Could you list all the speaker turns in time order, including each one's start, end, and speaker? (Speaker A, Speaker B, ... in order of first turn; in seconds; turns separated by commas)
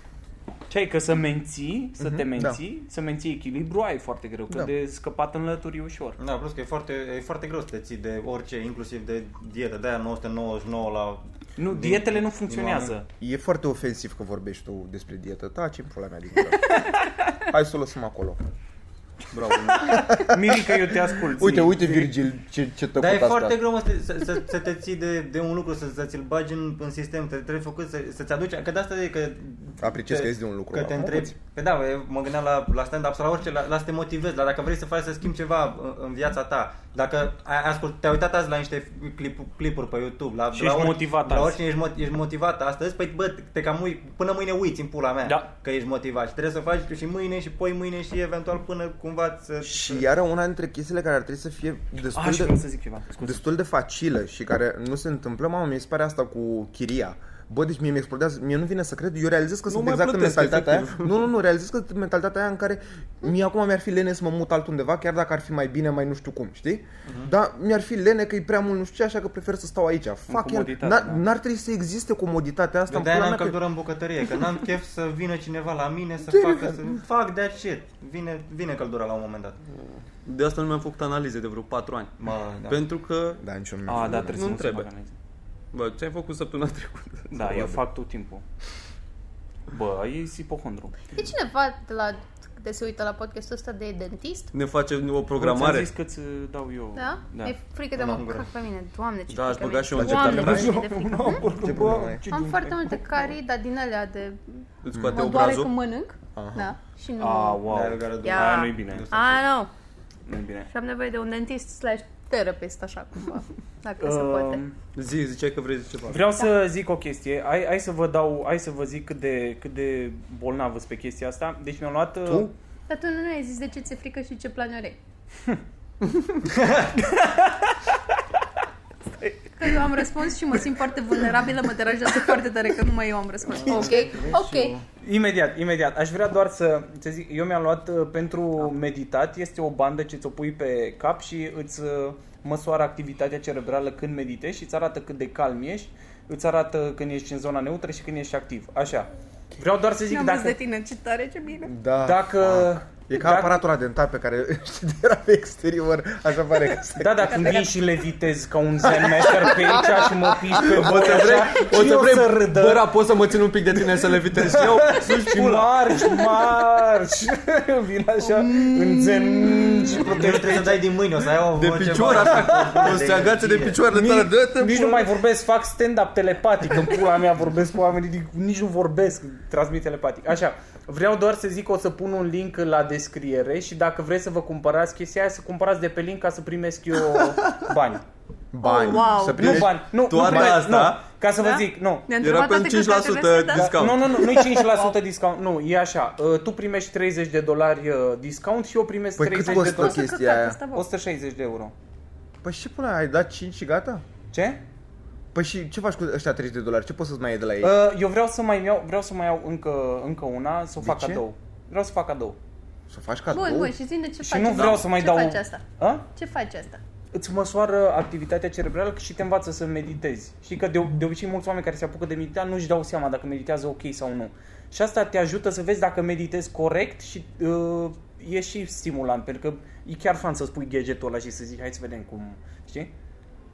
Speaker A: 0.7-6.2, Speaker B: 2.0-2.6, Speaker C: 6.2-12.9, Speaker A: 11.6-13.1, Speaker B: 13.2-16.9, Speaker B: 17.4-18.4, Speaker D: 19.3-20.1, Speaker B: 19.8-23.6, Speaker A: 19.8-22.1, Speaker C: 23.0-50.0, Speaker B: 29.8-31.4, Speaker A: 40.5-41.6, Speaker A: 45.2-45.5, Speaker B: 49.6-52.6, Speaker A: 52.1-53.5, Speaker B: 53.2-73.6, Speaker D: 59.7-61.2, Speaker A: 70.3-71.2, Speaker C: 72.9-79.6, Speaker B: 76.3-77.0, Speaker D: 80.2-82.2, Speaker C: 82.2-82.8, Speaker D: 82.7-83.4, Speaker B: 83.4-84.4, Speaker A: 83.8-85.1, Speaker D: 84.0-84.9, Speaker D: 85.7-87.7, Speaker A: 87.3-88.4, Speaker A: 89.7-91.2, Speaker E: 91.1-94.5, Speaker D: 94.5-95.9, Speaker A: 95.4-97.5, Speaker E: 96.9-101.7, Speaker C: 97.9-98.5, Speaker D: 99.3-100.7, Speaker B: 99.9-100.7, Speaker A: 100.2-103.3, Speaker B: 101.5-102.2, Speaker E: 102.3-107.6, Speaker D: 104.8-105.7, Speaker B: 104.9-105.3, Speaker B: 106.3-106.7, Speaker A: 107.2-109.0, Speaker C: 107.7-109.5, Speaker E: 108.2-109.7, Speaker A: 110.3-110.7, Speaker E: 110.7-114.6, Speaker A: 114.0-114.7, Speaker D: 114.9-116.3, Speaker A: 116.1-122.5, Speaker B: 122.2-122.5, Speaker E: 122.9-125.0, Speaker C: 126.5-126.9, Speaker A: 127.0-128.2, Speaker A: 129.2-129.8, Speaker E: 129.6-134.8, Speaker C: 133.6-134.7, Speaker A: 133.7-134.3, Speaker A: 134.9-150.6, Speaker E: 150.1-151.7, Speaker B: 151.7-157.6, Speaker A: 152.0-153.6, Speaker A: 156.9-162.9, Speaker E: 157.3-157.7, Speaker B: 158.8-160.0, Speaker B: 160.5-161.5, Speaker D: 160.6-165.7, Speaker A: 164.4-170.9, Speaker E: 168.2-170.0, Speaker C: 169.9-173.8, Speaker D: 171.3-175.1, Speaker A: 172.4-172.8, Speaker A: 173.9-188.0, Speaker B: 188.5-190.7, Speaker E: 188.6-189.5, Speaker D: 188.9-191.0, Speaker A: 189.3-192.1, Speaker E: 191.4-195.0, Speaker D: 192.2-194.3, Speaker A: 193.5-200.0, Speaker B: 199.2-200.6, Speaker E: 199.4-200.9, Speaker A: 200.7-201.7, Speaker B: 202.4-204.0, Speaker A: 204.3-204.6, Speaker B: 205.3-207.8, Speaker A: 207.6-212.4, Speaker B: 210.8-211.2, Speaker B: 212.9-213.8, Speaker E: 213.3-216.8, Speaker A: 214.2-216.1, Speaker A: 217.1-232.9